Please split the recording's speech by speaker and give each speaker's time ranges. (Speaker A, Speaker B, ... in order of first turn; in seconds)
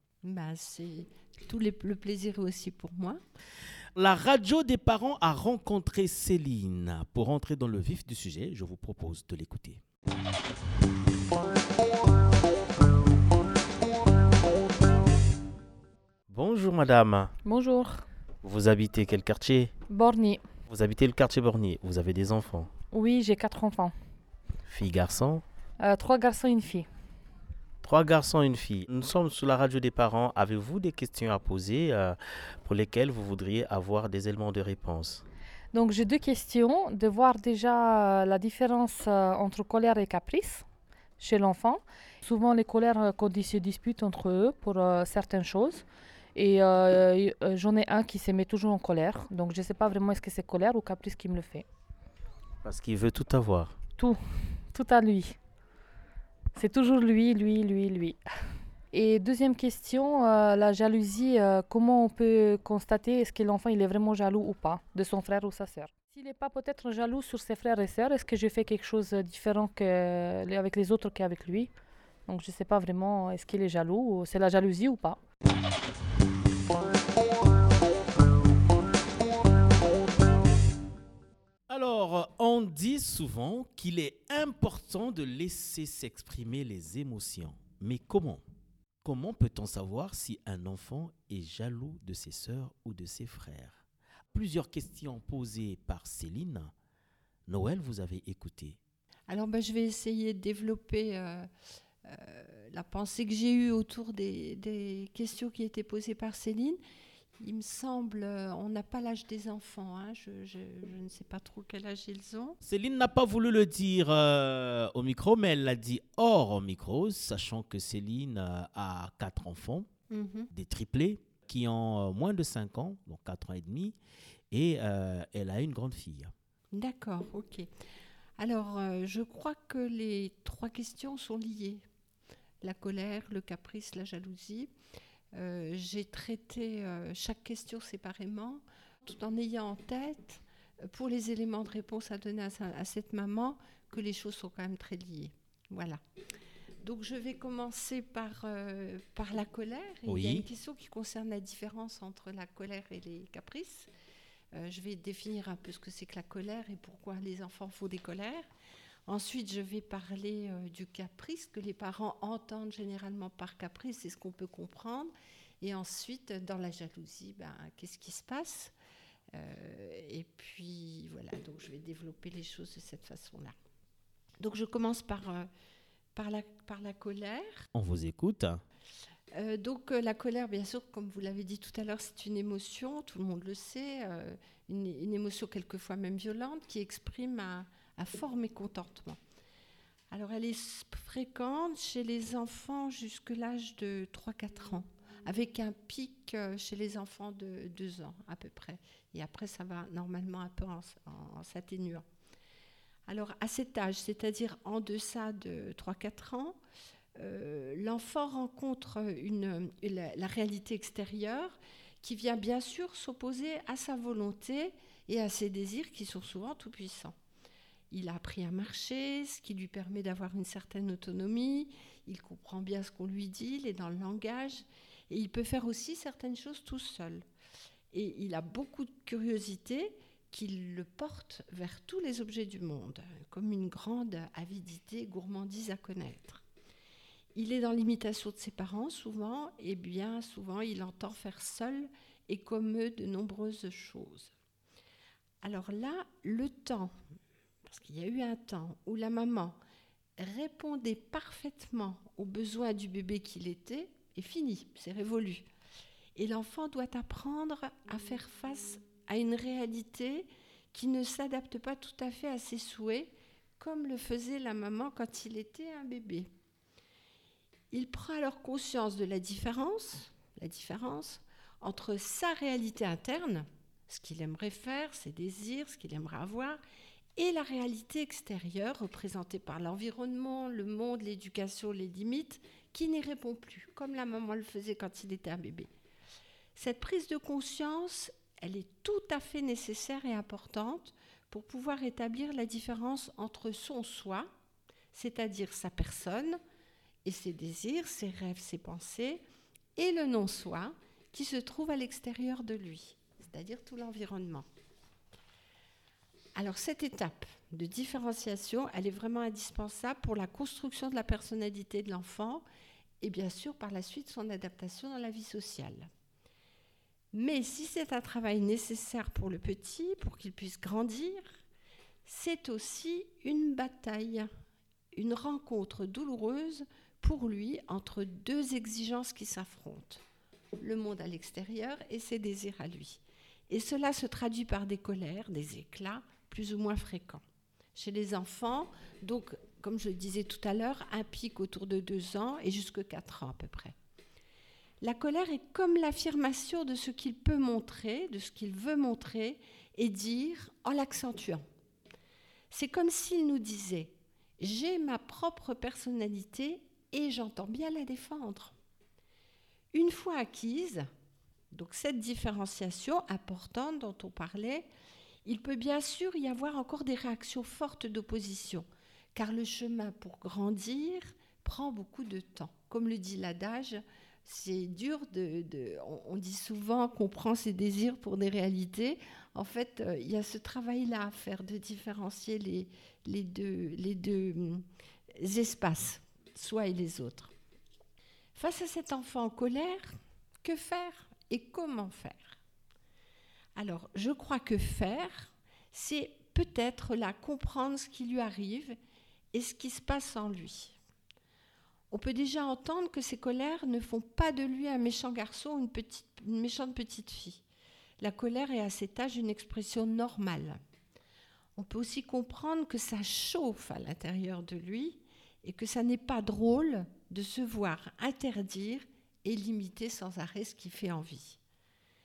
Speaker A: 0.2-3.2, 99.3-101.5, 102.0-106.8, 107.4-112.6, 120.1-120.5, 126.7-127.7, 128.4-131.8, 132.6-134.7, 135.3-146.0, 146.8-153.9, 154.5-158.5, 159.1-168.8, 169.3-173.6, 174.4-175.5, 176.2-177.7, 179.3-189.2, 190.1-202.0, 203.1-206.6, 207.2-217.2, 217.9-227.2, 227.9-236.4, 237.3-244.3, 245.4-246.9, 247.7-249.6, 250.2-255.5, 256.2-266.3, 267.7-276.6, 277.2-285.7, 286.6-294.3, 294.9-296.4, 297.1-299.2, 299.8-304.5, 306.4-312.4, 313.0-315.9, 317.1-321.4, 322.1-324.3, 324.9-330.0, 330.6-337.2, 337.8-343.8, 344.8-351.4, 352.5-358.6, 359.7-360.9, 361.5-364.7, 365.2-384.6, 385.2-387.3, 388.4-392.4, 393.6-398.8, 399.3-400.8, 401.9-407.4, 408.0-410.6, 411.6-421.4
Speaker B: 4.0-9.8, 16.3-17.3, 18.4-19.7, 20.7-22.7, 24.7-25.4, 27.8-35.2, 52.6-53.8, 81.7-88.4, 89.0-96.7, 97.5-98.8, 112.6-119.9, 120.5-124.0, 124.5-126.3, 150.1-150.5, 177.7-178.6
Speaker C: 17.4-18.1, 19.9-20.4, 22.9-23.9, 25.8-26.9, 35.7-40.6, 41.2-45.8, 46.4-51.7, 54.7-55.4, 56.5-58.2, 58.9-71.7, 72.3-75.2